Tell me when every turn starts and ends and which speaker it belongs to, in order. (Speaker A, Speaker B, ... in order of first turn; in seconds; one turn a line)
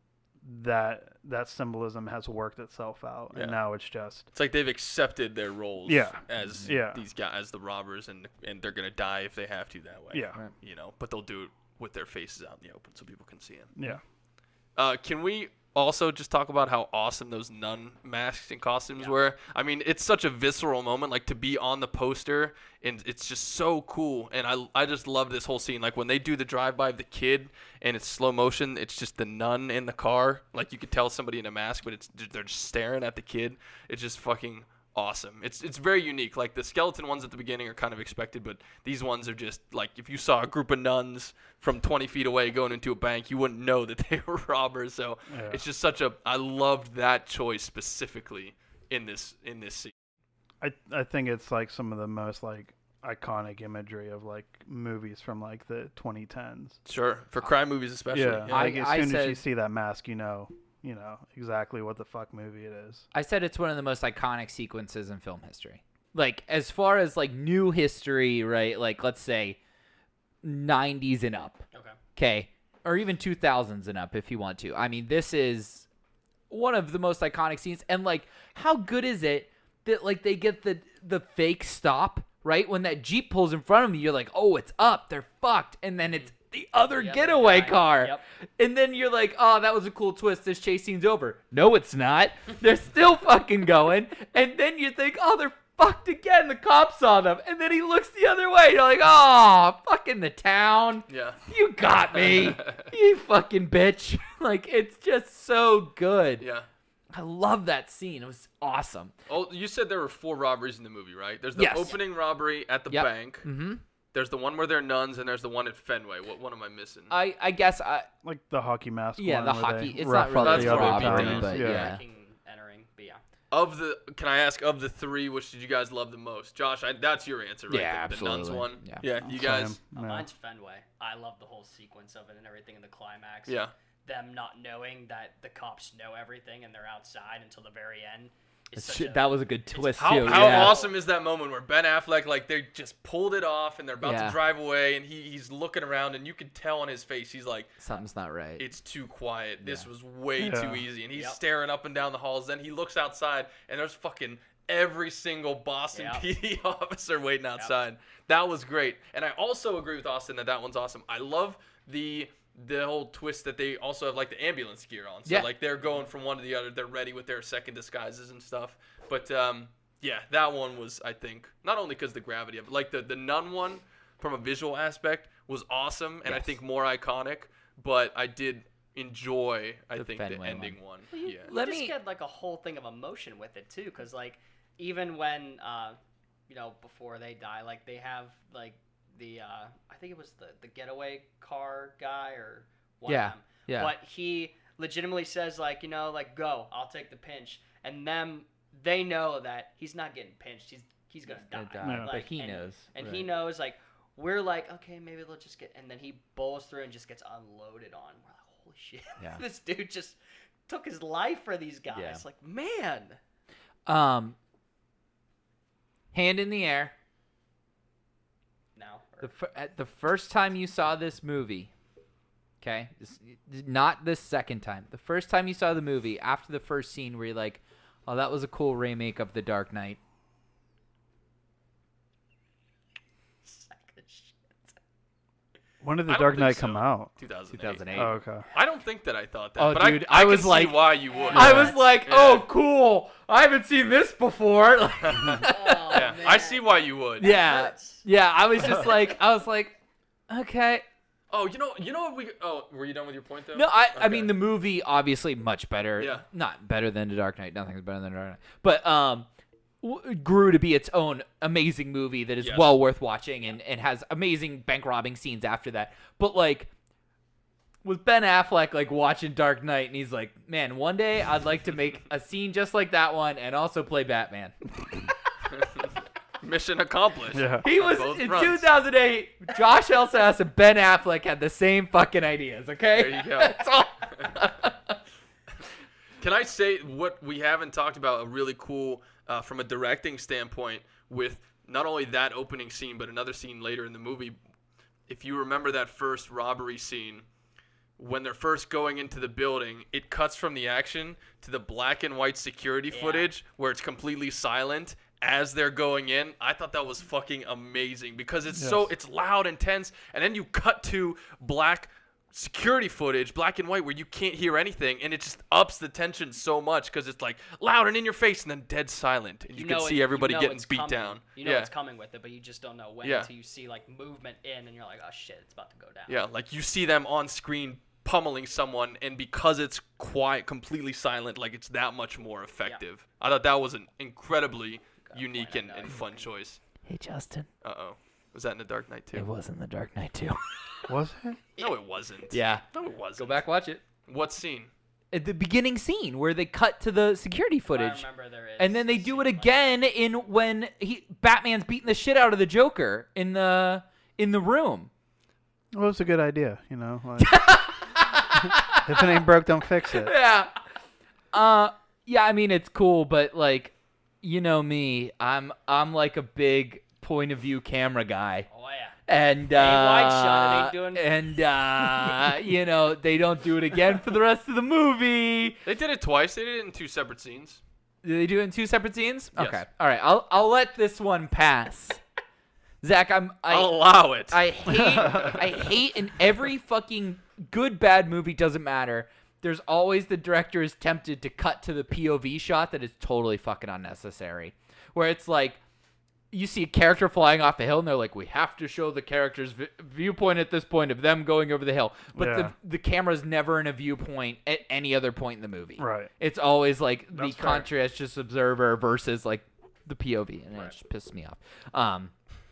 Speaker A: 0.4-4.3
Speaker B: 3.3-3.6
Speaker B: 4.3-13.7
Speaker A: 5.8-7.0
Speaker C: 6.4-6.8
Speaker A: 10.1-10.4
Speaker A: 13.8-14.0
Speaker B: 14.8-49.9
Speaker A: 45.3-45.6
Speaker A: 50.6-56.8
Speaker B: 56.9-58.7
Speaker A: 58.1-63.1
Speaker C: 58.5-59.4
Speaker C: 63.1-69.6
Speaker C: 70.4-71.6
Speaker D: 71.7-72.0
Speaker C: 72.2-75.9
Speaker C: 76.5-106.4
Speaker D: 87.0-88.2
Speaker B: 101.1-101.4
Speaker B: 101.9-102.9
Speaker B: 106.4-106.7
Speaker C: 107.1-109.1
Speaker B: 109.3-113.5
Speaker C: 111.5-112.0
Speaker C: 112.9-113.8
Speaker B: 114.1-117.2
Speaker C: 117.1-118.1
Speaker A: 118.2-121.9
Speaker C: 119.2-122.0
Speaker B: 120.3-121.5
Speaker D: 120.8-123.2
Speaker B: 123.5-129.8
Speaker C: 127.7-129.0
Speaker A: 129.2-130.2
Speaker D: 129.9-140.9
Speaker B: 133.5-133.7
Speaker C: 138.8-140.8
Speaker B: 140.0-147.8
Speaker C: 144.0-144.4
Speaker C: 147.8-148.6
Speaker B: 148.6-181.5
Speaker C: 149.6-149.9
Speaker A: 150.4-150.8
Speaker D: 155.9-156.3
Speaker C: 176.2-176.6
Speaker C: 179.9-180.8
Speaker D: 181.1-186.0
Speaker C: 181.4-181.9
Speaker D: 186.5-213.2
Speaker C: 193.1-193.9
Speaker C: 201.5-203.2
Speaker A: 201.8-202.1
Speaker C: 211.9-212.2
Speaker C: 213.8-214.3
Speaker C: 216.1-216.9
Speaker D: 218.8-219.3
Speaker C: 219.2-221.7
Speaker C: 222.6-230.0
Speaker D: 233.4-234.7
Speaker A: 235.8-237.1
Speaker B: 236.1-242.4
Speaker C: 237.5-238.2
Speaker A: 237.9-238.5
Speaker C: 239.6-246.2
Speaker D: 241.1-242.0
Speaker B: 245.0-247.3
Speaker D: 245.4-248.0
Speaker C: 247.2-249.8
Speaker C: 250.3-250.8
Speaker B: 251.3-254.3
Speaker C: 253.5-259.3
Speaker B: 256.0-256.2
Speaker C: 259.8-266.7
Speaker B: 262.4-262.8
Speaker C: 267.8-274.6
Speaker B: 275.5-275.9
Speaker B: 276.4-278.6
Speaker A: 277.3-277.6
Speaker C: 277.6-285.0
Speaker B: 282.9-283.6
Speaker B: 286.2-294.4
Speaker B: 295.1-297.2
Speaker B: 298.0-321.7
Speaker D: 302.9-303.3
Speaker A: 308.5-308.9
Speaker D: 319.5-326.2
Speaker B: 323.0-323.3
Speaker B: 326.1-336.6
Speaker D: 335.0-336.3
Speaker C: 336.8-337.5
Speaker B: 337.6-339.3
Speaker C: 339.1-340.9
Speaker A: 340.9-341.4
Speaker B: 341.6-343.5
Speaker C: 342.3-342.6
Speaker C: 343.2-343.8
Speaker B: 344.0-344.7
Speaker C: 345.1-348.1
Speaker D: 347.7-349.8
Speaker C: 348.6-354.9
Speaker A: 355.7-357.6
Speaker C: 357.2-359.2
Speaker A: 358.7-360.1
Speaker C: 359.9-360.6
Speaker C: 361.3-368.5
Speaker D: 368.5-369.0
Speaker C: 369.1-375.6
Speaker D: 369.5-371.0
Speaker B: 375.6-377.6
Speaker C: 378.0-382.0
Speaker B: 379.3-379.6
Speaker C: 382.8-395.6
Speaker B: 383.5-385.6
Speaker A: 384.7-385.4
Speaker C: 396.3-412.1
Speaker A: 402.1-402.5
Speaker A: 405.8-406.1
Speaker A: 407.1-407.7